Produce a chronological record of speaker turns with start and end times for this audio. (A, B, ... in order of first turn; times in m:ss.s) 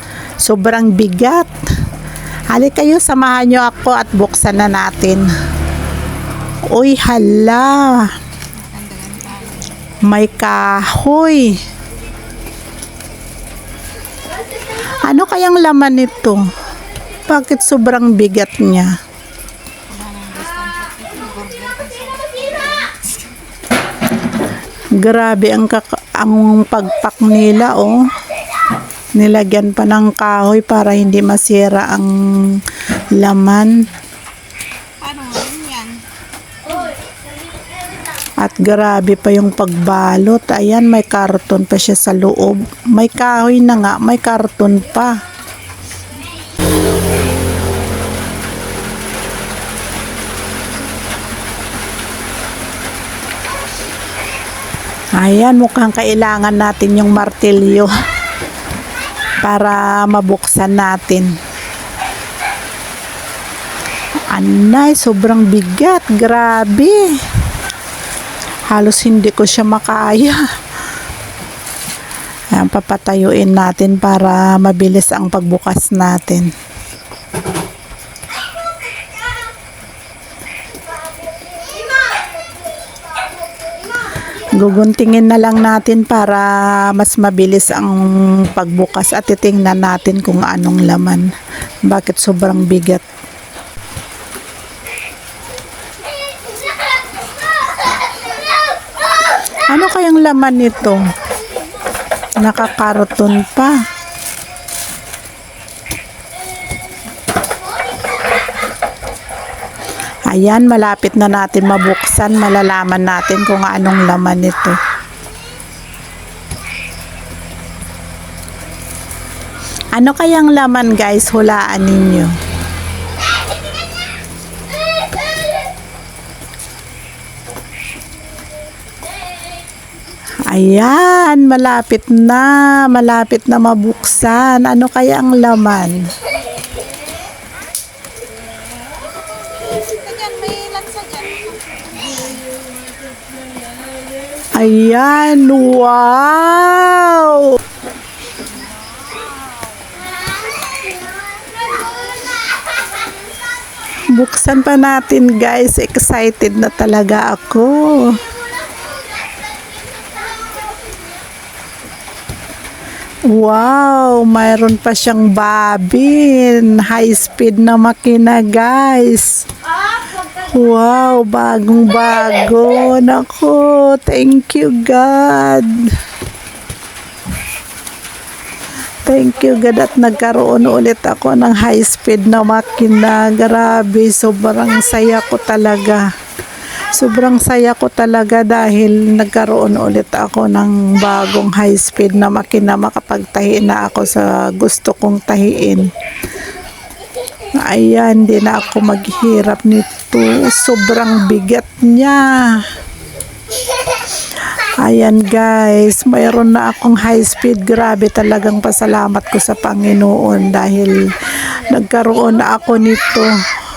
0:00.4-0:01.5 A
0:02.5-0:05.3 A
0:06.7-0:08.1 A
0:08.5-0:09.9 B
0:10.1-0:11.6 A
0:15.0-0:16.5 A
0:17.3-0:18.9 A
0:19.9-0:23.1 B
0:24.9-0:28.1 A
0:29.2-0:32.6 A
0:33.1-0:33.8 A
0:35.0-0:36.0 B
0:38.4-0:45.2 A
0:55.2-0:57.9 A
0:59.4-1:01.3 A
1:04.3-1:07.2 A
1:08.7-1:10.4 A
1:12.5-1:16.5 A
1:24.6-1:31.3 A
1:31.9-1:33.0 A
1:39.7-1:41.1 A
1:42.4-1:43.8 A
1:50.3-1:54.8 A
1:59.9-2:02.4 A
2:10.4-2:16.1 A
2:19.4-2:22.6 B
2:24.5-2:27.6 A
2:28.7-2:30.0 B
2:34.1-2:38.2 A
2:43.3-2:49.5 A
2:50.4-2:55.9 A
2:59.0-3:06.0 A
3:06.9-3:15.9 A
3:17.6-3:22.6 A
3:24.8-3:33.3 A